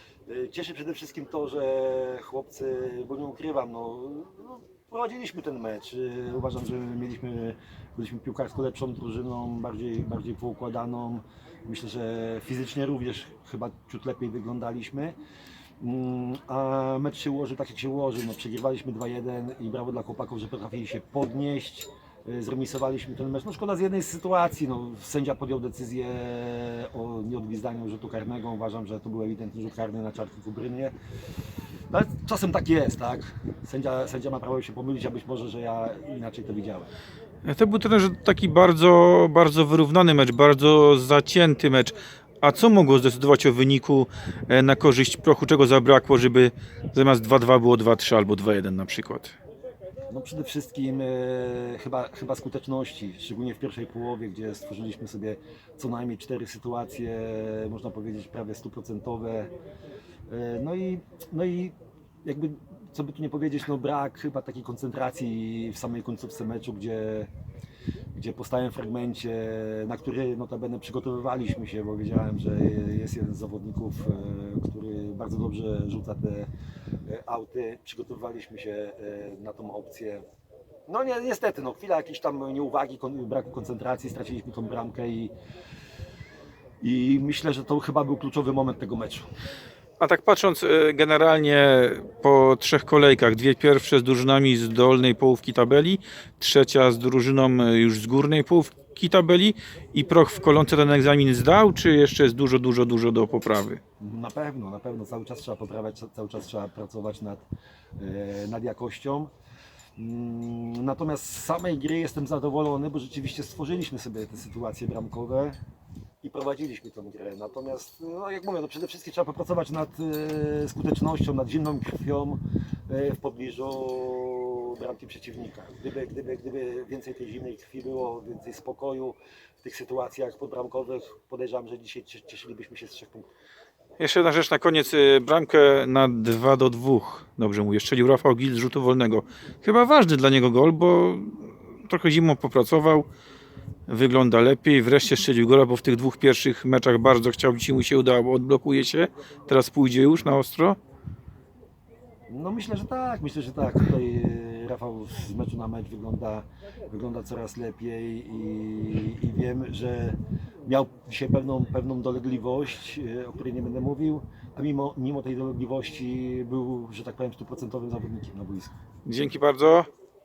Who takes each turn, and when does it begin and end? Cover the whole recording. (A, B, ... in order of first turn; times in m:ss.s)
0:00.3-0:15.2 A
0:15.8-0:30.9 A
0:31.9-0:36.9 A
0:37.4-0:49.4 B
0:50.1-0:59.5 A
1:00.3-1:07.3 A
1:08.2-1:16.5 A
1:17.1-1:20.2 A
1:20.9-1:25.3 A
1:26.8-1:29.3 A
1:30.0-1:43.8 B
1:44.0-1:47.4 A
1:48.0-1:49.3 A
1:50.0-1:55.6 A
1:56.2-2:13.3 A
2:14.0-2:23.1 B
2:23.9-2:30.8 B
2:32.3-2:48.8 A
2:49.1-2:49.9 B